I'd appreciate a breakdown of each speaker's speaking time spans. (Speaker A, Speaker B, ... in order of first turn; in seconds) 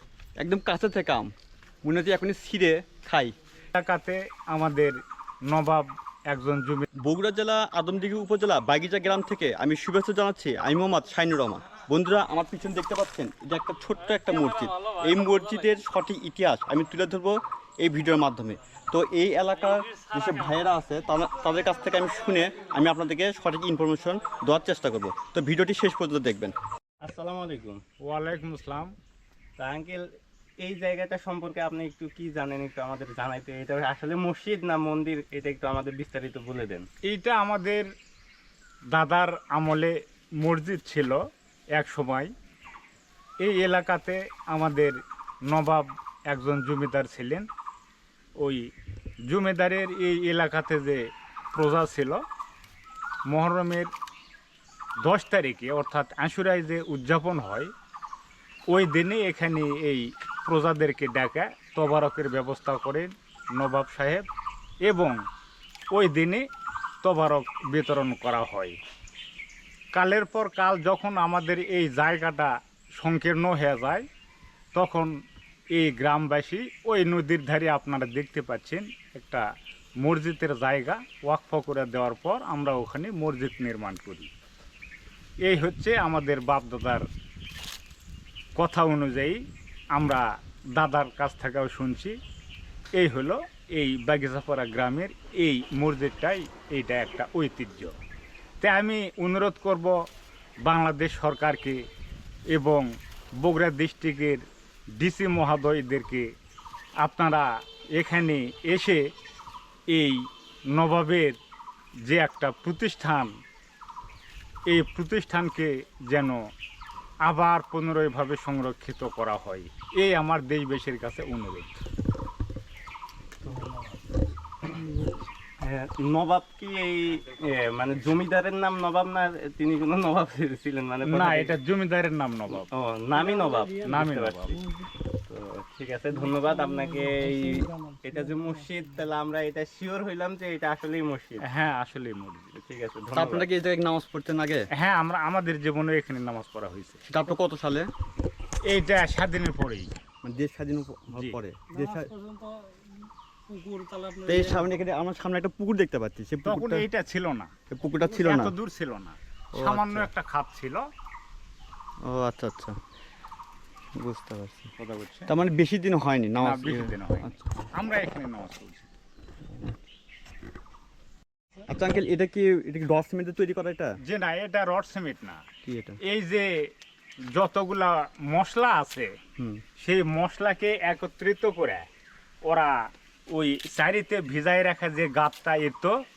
Speaker A: 0.4-1.3, 1.8-3.3, 7.0-26.5, 143.1-144.7, 147.1-147.9, 150.2-152.1, 154.2-156.8, 157.7-158.5, 159.5-160.1, 162.1-162.8, 164.0-164.7, 165.3-167.5, 171.7-173.9, 175.6-176.0, 179.4-179.6
Speaker B: 3.7-6.8, 28.0-28.9, 37.0-37.9, 38.9-42.3, 43.4-47.5, 48.4-48.7, 49.2-52.2, 53.2-53.9, 55.0-57.7, 58.7-64.3, 64.8-65.2, 65.9-66.5, 67.0-68.8, 69.9-74.1, 74.7-84.3, 85.4-87.1, 88.5-92.2, 92.9-98.0, 98.6-100.0, 100.6-101.9, 102.5-106.3, 107.0-109.0, 109.9-111.4, 112.0-113.4, 114.7-116.5, 117.2-121.7, 131.0-132.7, 133.9-134.6, 141.4-142.5, 144.7-147.0, 148.6-149.9, 151.1-151.4, 153.7-154.1, 156.4-157.5, 158.0-160.9, 164.8-165.3, 166.4-168.9, 174.0-175.4, 176.0-176.7, 177.3-179.2, 179.8-181.9, 182.4-186.0
Speaker C: 27.0-27.8, 29.6-30.0, 30.6-36.9, 123.4-123.8, 125.6-131.6, 132.5-134.6, 135.3-141.4, 142.6-143.5